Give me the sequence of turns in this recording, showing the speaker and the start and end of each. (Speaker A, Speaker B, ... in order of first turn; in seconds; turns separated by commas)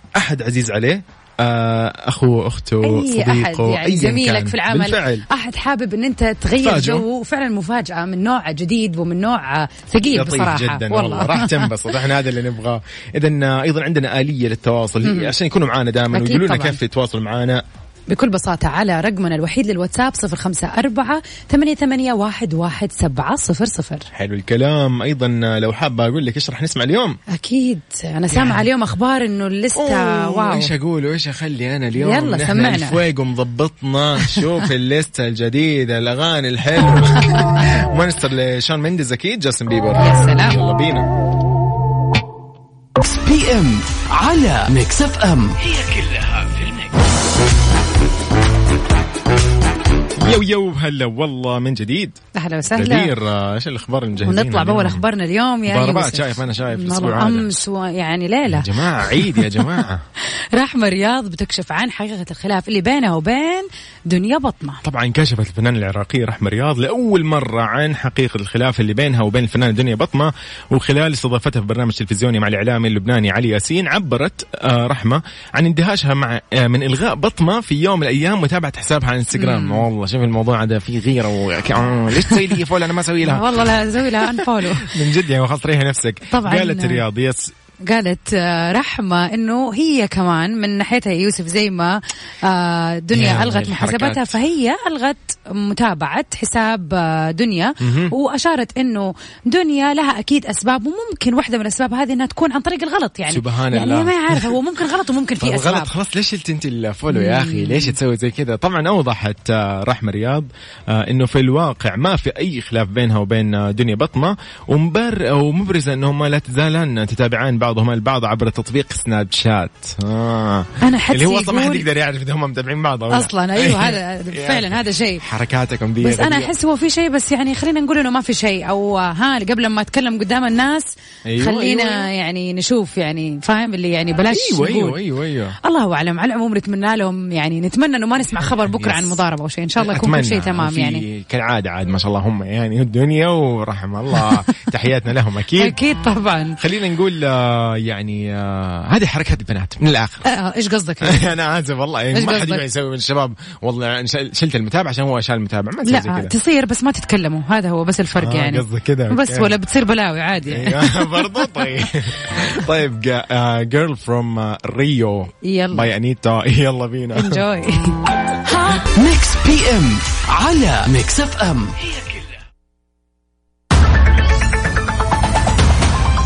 Speaker A: 0.2-5.2, Speaker B: 2.8-11.9, Speaker A: 6.6-7.0, Speaker A: 10.1-17.6, Speaker B: 15.0-15.3, Speaker B: 16.1-16.8, Speaker B: 18.1-24.1, Speaker A: 24.1-27.2, Speaker B: 27.3-30.7, Speaker A: 28.3-28.7, Speaker A: 29.8-41.1, Speaker B: 32.0-33.0, Speaker B: 34.2-34.5, Speaker B: 40.0-40.6, Speaker C: 43.0-45.6, Speaker A: 45.8-46.5, Speaker A: 50.2-52.1, Speaker B: 52.3-53.1, Speaker A: 52.7-55.0, Speaker B: 54.2-59.8, Speaker A: 55.7-57.6, Speaker A: 58.5-60.0, Speaker B: 60.5-64.8, Speaker A: 64.8-83.5, Speaker B: 79.3-79.9, Speaker B: 82.0-82.6, Speaker B: 83.2-85.0, Speaker A: 84.2-87.5, Speaker B: 86.3-87.0, Speaker B: 87.8-105.9, Speaker A: 93.1-94.4, Speaker A: 97.8-98.1, Speaker A: 103.3-104.6, Speaker A: 105.4-126.5, Speaker B: 107.1-107.9, Speaker B: 120.8-121.9, Speaker B: 123.1-125.2, Speaker B: 126.0-135.0, Speaker A: 131.2-132.1, Speaker A: 134.3-135.6, Speaker B: 135.6-141.0, Speaker A: 138.5-139.2, Speaker A: 139.8-145.8, Speaker B: 144.1-144.6, Speaker B: 145.6-146.6, Speaker A: 146.6-150.2, Speaker B: 150.2-151.3, Speaker A: 151.0-156.3, Speaker B: 152.1-152.6, Speaker B: 155.8-161.7, Speaker A: 158.2-159.5, Speaker A: 160.4-167.4, Speaker B: 165.4-165.9, Speaker B: 167.1-168.8, Speaker C: 168.7-171.8